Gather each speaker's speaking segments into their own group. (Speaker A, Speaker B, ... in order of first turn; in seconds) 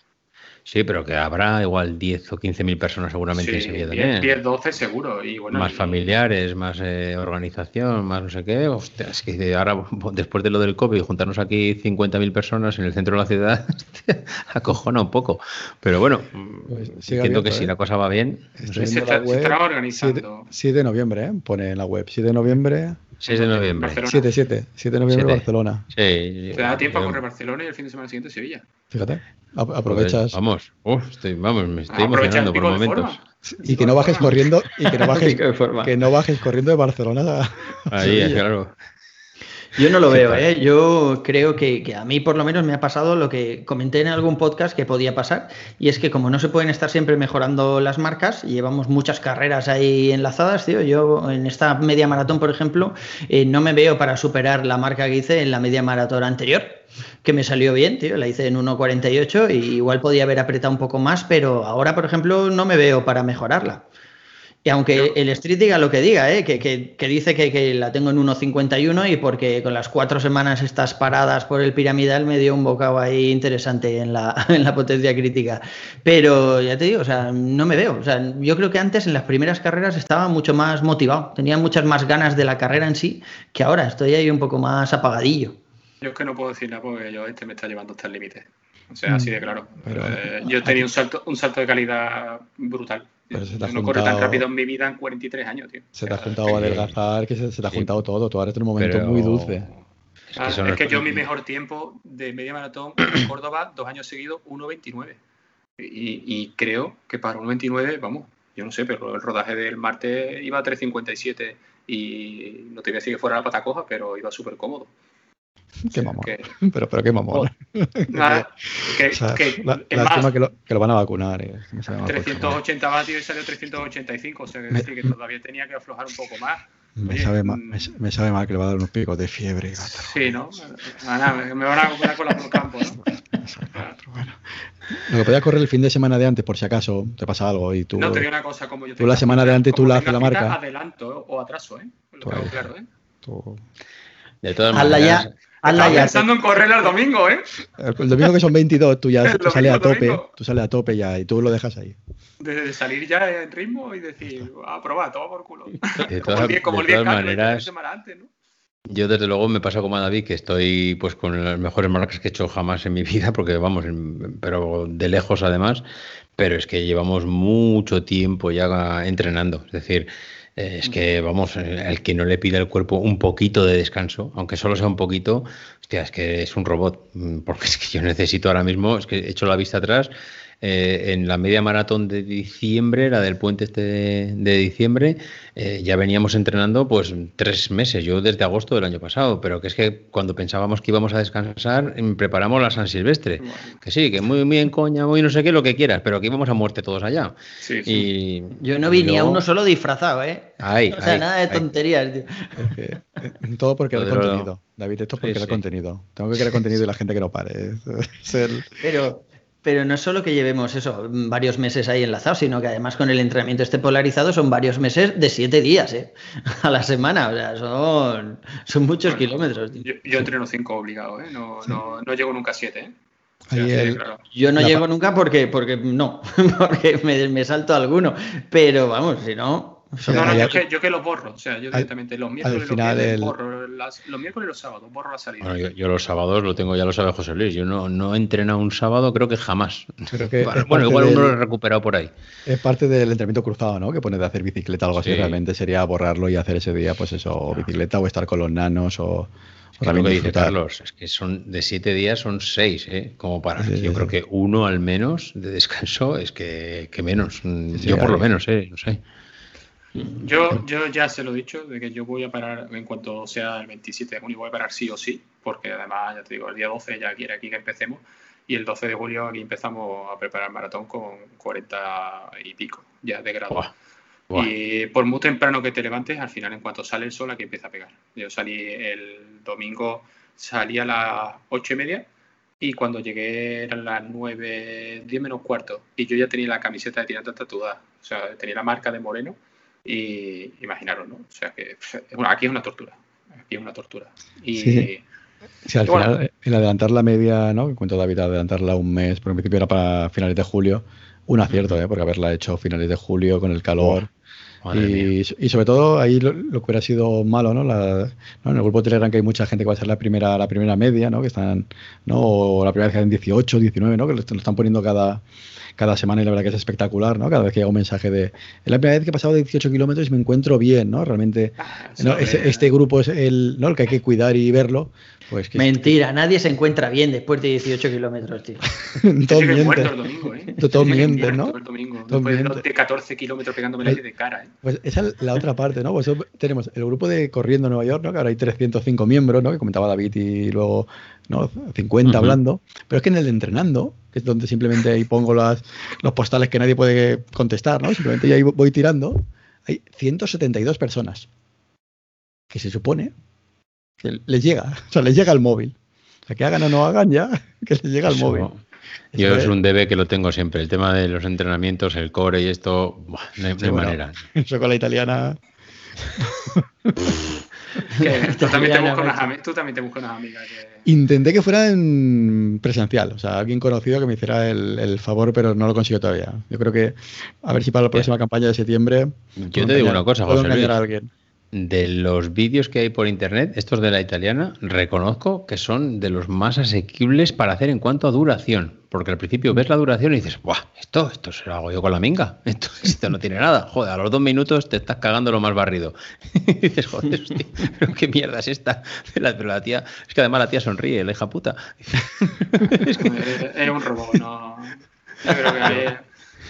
Speaker A: 0.7-4.3, 5.5-18.7, 23.2-24.0, 25.1-27.2, 29.9-33.2, 37.9-38.8, 40.1-40.5, 96.5-97.0, 98.8-99.6, 100.3-101.2, 144.4-146.1, 156.0-157.7, 158.9-165.8, 166.4-180.1, 180.6-197.3, 197.9-199.4, 200.6-201.7, 203.9-204.5, 205.2-205.6, 235.4-242.1, 245.0-245.4, 249.8-259.0, 301.5-301.8, 304.6-305.1, 342.1-342.4, 358.1-358.6, 359.1-364.2, 379.4-380.8, 381.5-403.4
Speaker B: 3.3-6.0, 18.7-20.5, 23.3-24.3, 26.5-28.6, 31.9-34.5, 86.0-96.5, 100.4-105.2, 105.8-114.9, 115.9-116.5, 118.1-120.3, 122.0-127.9, 129.9-133.1, 138.0-142.9, 145.7-147.5, 149.2-150.3, 152.4-158.3, 193.4-193.7, 197.6-198.1, 219.1-222.9, 223.5-224.2, 230.1-235.7, 260.2-273.7, 274.3-282.1, 282.6-295.0, 295.9-296.2, 321.6-322.7, 329.2-334.5, 368.0-370.9, 402.9-406.0
Speaker C: 16.7-17.7, 18.6-23.1, 24.0-25.9, 28.9-30.4, 33.6-38.4, 89.1-90.9, 93.3-94.5, 96.0-99.7, 115.9-122.6, 124.7-125.1, 127.0-130.3, 133.4-134.4, 135.1-138.3, 139.0-140.6, 142.2-142.7, 143.2-143.6, 147.8-152.0, 202.6-208.7, 223.5-224.0, 224.6-224.8, 230.1-230.6, 232.4-233.3, 240.1-241.4, 242.5-250.6, 253.6-254.1, 257.8-258.3, 294.5-294.9, 295.7-304.1, 304.7-315.2, 315.8-326.0, 328.9-329.9, 330.6-331.6, 332.1-332.6, 334.6-351.3, 352.5-353.1, 354.0-358.5, 359.1-359.5, 363.6-365.4, 366.2-367.2, 370.9-381.1
Speaker D: 34.8-35.9, 39.8-63.9, 64.7-85.6, 144.7-146.3, 198.6-202.7, 208.8-219.9, 224.3-230.5, 325.6-328.7, 367.9-369.3